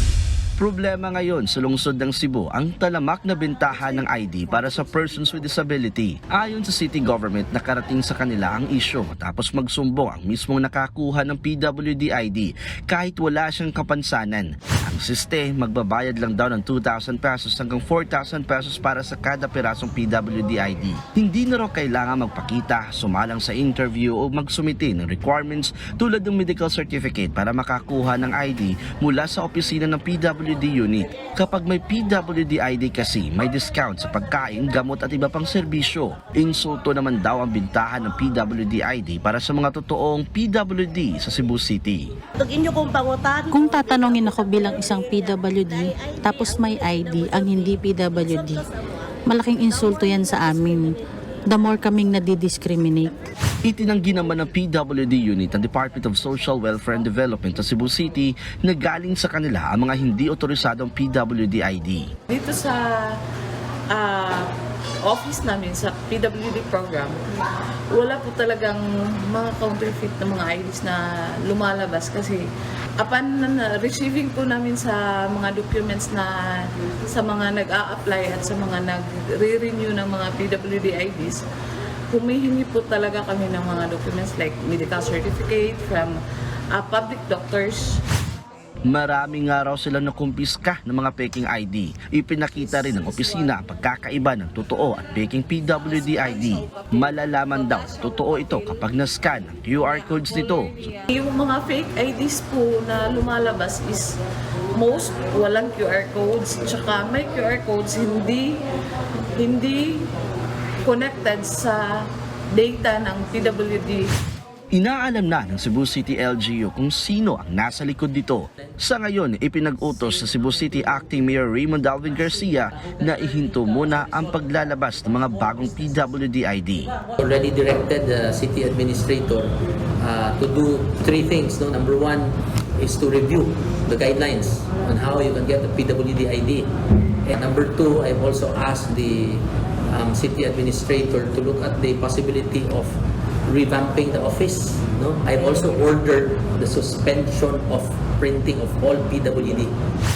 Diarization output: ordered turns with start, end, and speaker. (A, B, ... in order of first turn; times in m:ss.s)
0:00.6-0:42.1 A
0:43.5-0:48.7 B
0:49.2-0:53.1 B
0:53.6-1:02.1 A
1:02.3-1:03.2 C
1:03.9-1:04.5 C
1:05.0-1:07.2 C
1:07.9-1:12.4 C
1:13.0-1:21.4 C
1:22.1-1:26.2 C
1:26.7-1:28.0 C
1:28.9-1:40.9 A
1:41.1-1:44.2 C
1:44.7-1:48.6 C
1:49.3-1:50.1 C
1:50.8-1:52.0 C
1:52.5-1:54.1 C
1:54.7-2:06.9 A
2:07.2-2:29.7 D